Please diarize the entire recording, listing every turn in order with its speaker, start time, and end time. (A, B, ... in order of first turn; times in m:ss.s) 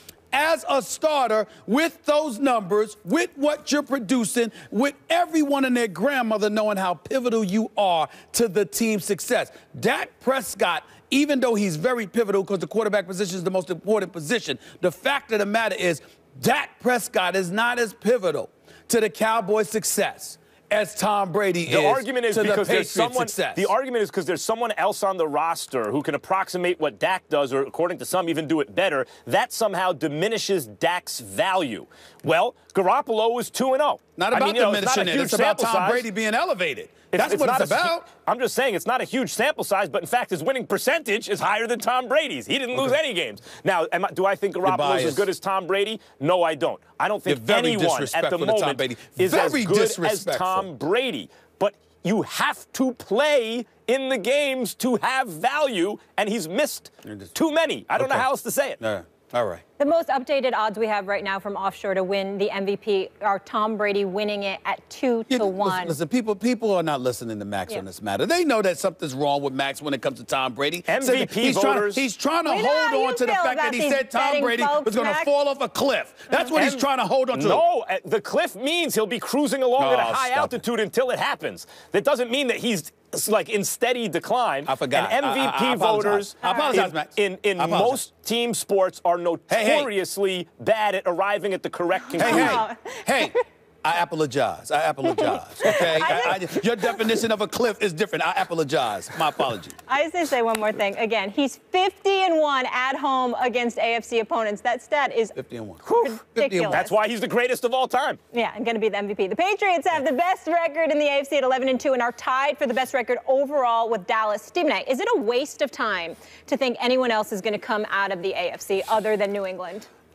0:00.3-0:23.7 A
0:21.7-0:36.1 B
0:34.2-0:38.1 A
0:37.1-0:58.8 B
0:44.6-0:45.3 A
0:47.3-0:50.7 A
0:57.0-0:57.3 A
0:58.0-0:58.3 A
0:58.8-0:59.6 A
0:59.8-1:06.0 C
1:05.3-1:17.6 A
1:10.9-1:12.0 B
1:12.5-1:15.3 C
1:16.5-1:32.6 B
1:19.8-1:20.6 A
1:24.7-1:28.0 A
1:26.4-1:26.9 C
1:29.5-1:29.9 A
1:32.2-1:33.4 C
1:32.2-1:39.7 A
1:35.1-1:37.0 C
1:39.9-1:46.9 C
1:45.4-1:46.8 A
1:46.7-1:48.2 B
1:48.3-1:59.9 C